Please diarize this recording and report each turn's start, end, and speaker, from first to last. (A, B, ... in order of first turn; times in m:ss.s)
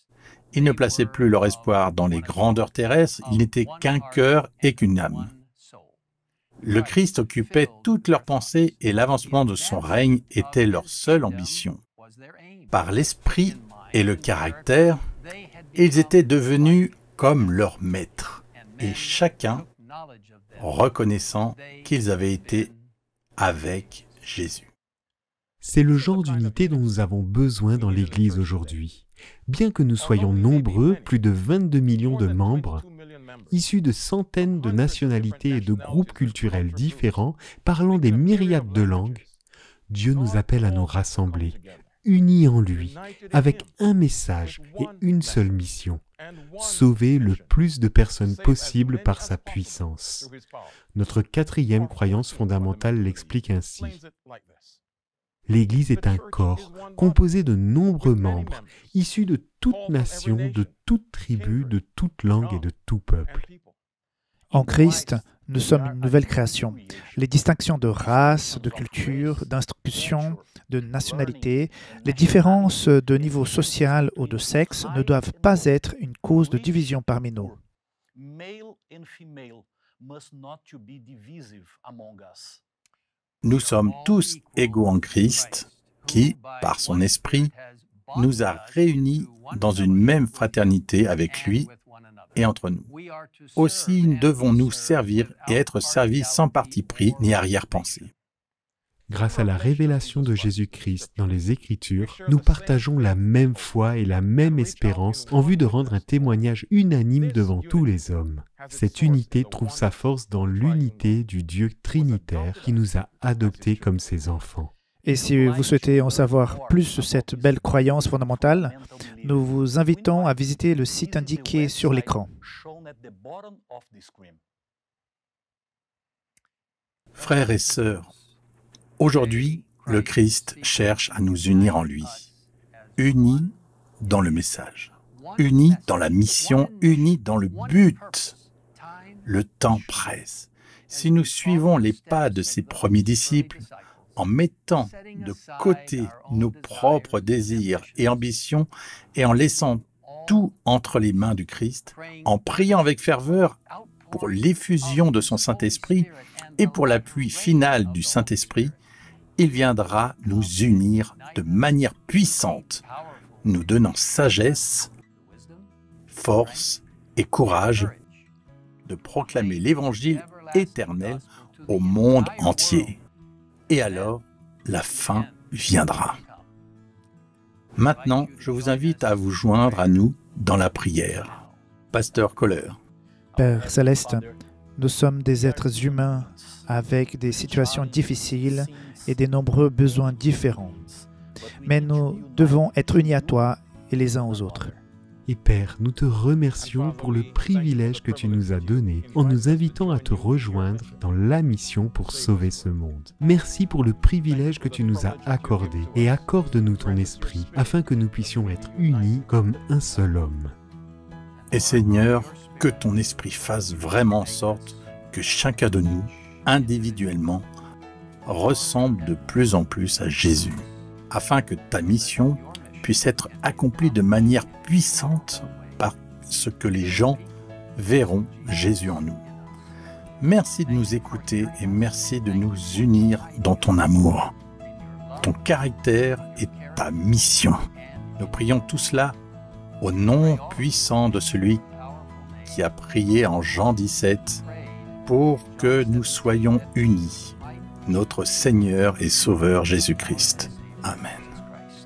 0:00.5-0:05.3 A
0:06.6-0:11.8 A
0:12.7-0:15.0 A
0:15.8-0:19.6 A
0:20.6-0:22.7 A
0:23.4-0:24.7 A
0:25.6-0:32.8 B
0:33.5-0:39.2 B
0:39.9-0:46.0 B
0:46.6-0:50.3 B
0:50.9-0:54.0 B
0:55.5-1:03.4 B
1:04.5-1:17.6 C
1:23.4-1:27.5 A
1:28.1-1:31.7 A
1:32.4-1:32.9 A
1:33.6-1:38.1 A
1:39.1-1:54.7 B
1:55.0-2:02.3 C
2:07.2-2:08.1 A
2:09.0-2:12.3 A
2:13.0-2:18.4 A
2:19.2-2:23.6 A
2:24.2-2:33.6 A
2:34.1-2:38.8 A
2:39.4-2:42.8 A
2:43.4-2:44.9 A
2:46.1-2:47.9 A
2:48.8-2:53.0 A
2:53.7-2:56.2 A
2:57.8-3:01.4 A
3:01.9-3:02.8 A
3:03.4-3:10.9 C
3:11.6-3:14.7 C
3:15.3-3:30.5 B
3:31.5-3:37.5 A
3:38.2-3:47.2 A
3:47.8-3:49.2 A
3:50.2-3:54.3 A
3:55.2-3:57.6 A
3:58.2-3:59.2 A
3:59.8-4:01.6 A
4:02.4-4:04.4 A
4:05.0-4:07.3 A
4:07.8-4:11.4 A